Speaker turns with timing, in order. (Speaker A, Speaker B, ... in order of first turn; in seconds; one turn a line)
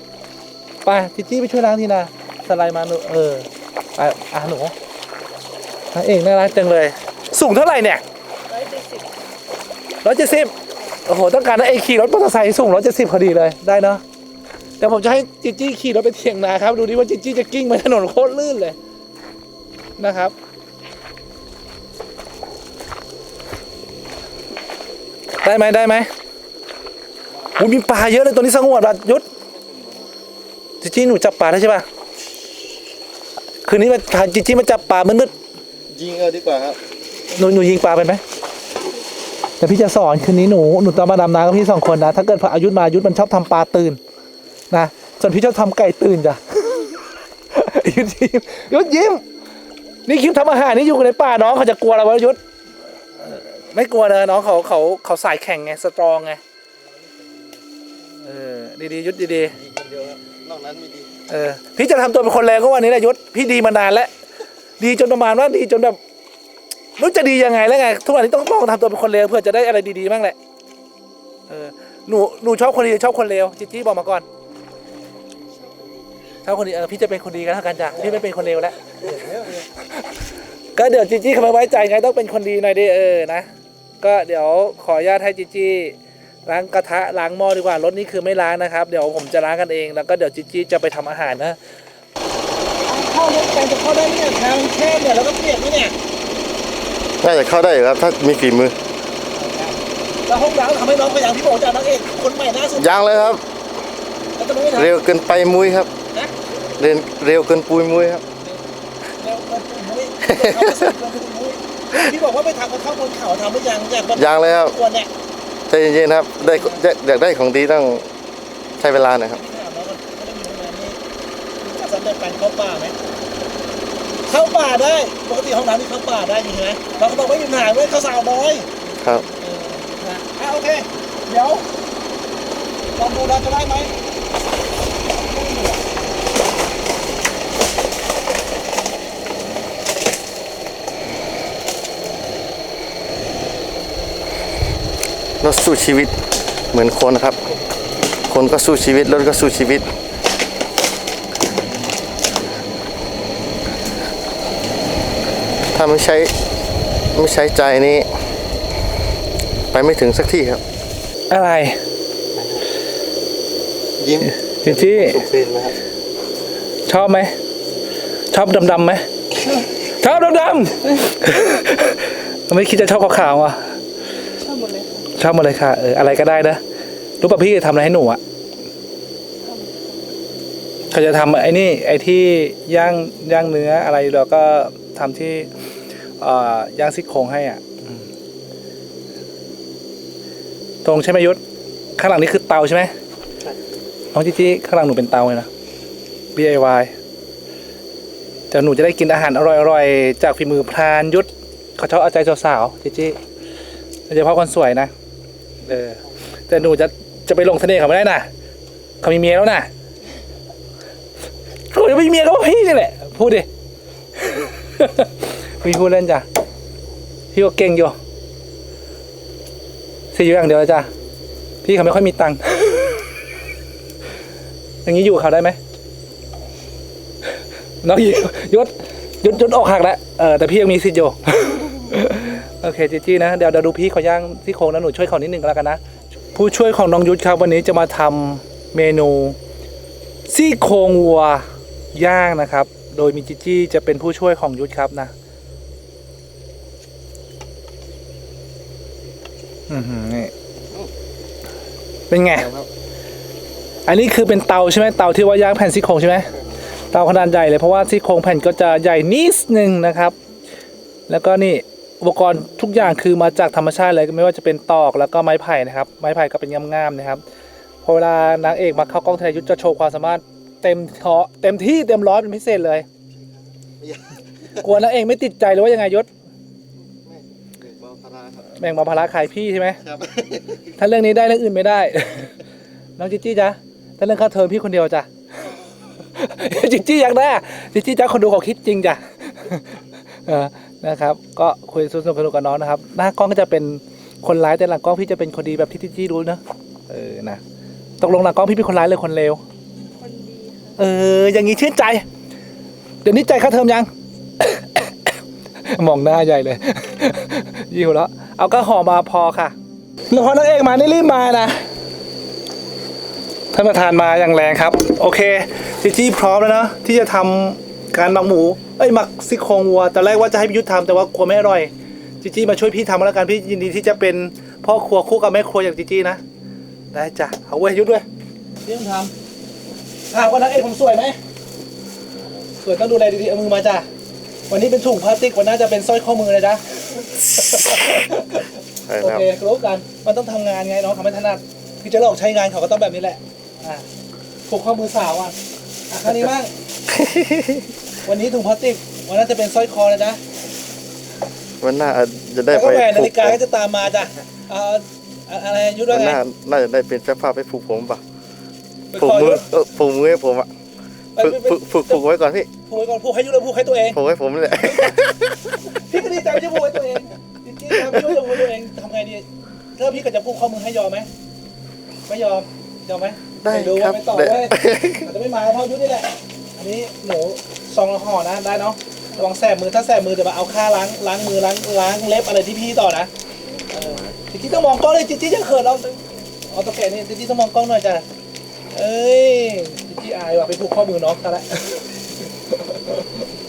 Speaker A: 0.8-4.7
Speaker A: 5.9-8.0
Speaker B: 8.5-9.1
Speaker A: 10.0-10.5
Speaker A: 11.1-14.0
Speaker A: 14.8-18.8
Speaker A: 20.0-20.4
Speaker A: 25.4-26.1
Speaker A: 27.6-29.3
Speaker C: 29.5-30.1
Speaker A: 30.8-31.9
Speaker A: 33.6-35.3
Speaker C: 35.9-36.8
Speaker A: 37.4-38.2
Speaker A: 39.6-44.0
Speaker A: 44.7-47.0
Speaker A: 47.5-49.2
Speaker A: 50.1-52.4
Speaker A: 53.2-56.4
Speaker C: 56.9-57.6
Speaker A: 58.2-59.5
Speaker C: 59.5-61.1
Speaker A: 61.3-64.1
Speaker A: 64.8-66.0
Speaker A: 67.0-70.4
Speaker A: 71.5-74.3
Speaker B: 75.6-76.0
Speaker A: 76.4-78.8
Speaker C: 77.9-79.7
Speaker A: 80.8-83.5
Speaker A: 84.0-86.0
Speaker A: 86.5-91.6
Speaker A: 92.9-96.0
Speaker C: 97.2-98.8
Speaker A: 99.3-102.9
Speaker C: 102.8-103.4
Speaker A: 104.4-105.0
Speaker C: 104.8-105.9
Speaker C: 106.8-108.2
Speaker A: 109.2-115.1
Speaker C: 110.3-110.9
Speaker C: 114.2-114.8
Speaker C: 115.7-118.1
Speaker A: 116.5-116.8
Speaker C: 118.8-119.4
Speaker A: 119.3-121.0
Speaker A: 121.6-123.0
Speaker A: 124.3-131.7
Speaker C: 129.0-129.3
Speaker A: 133.0-133.9
Speaker A: 135.2-135.8
Speaker C: 145.4-146.2
Speaker C: 146.7-147.4
Speaker C: 148.3-149.9
Speaker C: 155.7-156.3
Speaker C: 157.1-158.1
Speaker C: 159.7-160.6
Speaker A: 161.3-161.8
Speaker C: 162.3-162.6
Speaker C: 164.0-165.7
Speaker A: 164.2-165.2
Speaker A: 166.9-167.3
Speaker A: 168.3-169.1
Speaker A: 170.0-173.8
Speaker B: 174.4-175.1
Speaker A: 175.2-176.6
Speaker A: 177.2-178.2
Speaker B: 179.4-180.0
Speaker A: 180.9-185.5
Speaker A: 186.2-188.1
Speaker A: 190.8-191.4
Speaker A: 192.0-192.9
Speaker A: 194.1-195.5
Speaker A: 196.3-196.9
Speaker A: 198.5-203.2
Speaker A: 204.1-204.9
Speaker A: 205.7-208.3
Speaker A: 209.0-209.7
Speaker A: 211.7-213.5
Speaker A: 214.2-216.2
Speaker A: 217.3-218.0
Speaker A: 220.1-220.9
Speaker A: 221.6-223.0
Speaker A: 224.8-225.6
Speaker A: 227.8-235.8
Speaker A: 236.3-239.4
Speaker A: 240.3-245.1
Speaker A: 249.7-250.3
Speaker A: 252.1-252.5
Speaker C: 252.3-252.7
Speaker A: 253.9-256.3
Speaker A: 256.9-260.1
Speaker A: 261.1-267.2
Speaker A: 267.8-272.9
Speaker C: 273.1-274.6
Speaker A: 274.6-276.1
Speaker C: 276.9-278.5
Speaker A: 278.6-279.8
Speaker C: 279.8-280.7
Speaker A: 280.8-282.3
Speaker A: 283.0-285.1
Speaker A: 286.1-289.7
Speaker A: 290.3-297.4
Speaker A: 298.0-299.4
Speaker B: 300.0-300.8
Speaker A: 300.8-302.0
Speaker A: 303.0-303.9
Speaker A: 304.4-305.1
Speaker A: 305.6-309.6
Speaker A: 310.1-311.6
Speaker A: 313.5-321.7
Speaker A: 322.2-326.2
Speaker A: 326.9-328.1
Speaker A: 328.6-329.1
Speaker A: 330.1-331.2
Speaker A: 332.6-333.9
Speaker A: 334.5-343.9
Speaker C: 337.4-337.9
Speaker C: 338.9-339.3
Speaker A: 344.5-345.4
Speaker A: 345.9-346.5
Speaker C: 346.9-347.7
Speaker A: 348.1-350.2
Speaker C: 351.6-353.4
Speaker A: 352.5-356.2
Speaker C: 355.9-358.0
Speaker A: 358.9-359.4
Speaker C: 359.0-360.5
Speaker A: 361.1-362.0
Speaker C: 361.2-362.5
Speaker A: 362.7-364.0
Speaker C: 363.9-365.7
Speaker A: 365.8-371.1
Speaker C: 367.8-368.2
Speaker A: 372.1-383.1
Speaker C: 373.4-375.1
Speaker B: 383.4-383.9
Speaker A: 383.7-385.9
Speaker B: 385.7-386.3
Speaker A: 386.5-388.1
Speaker A: 388.7-393.2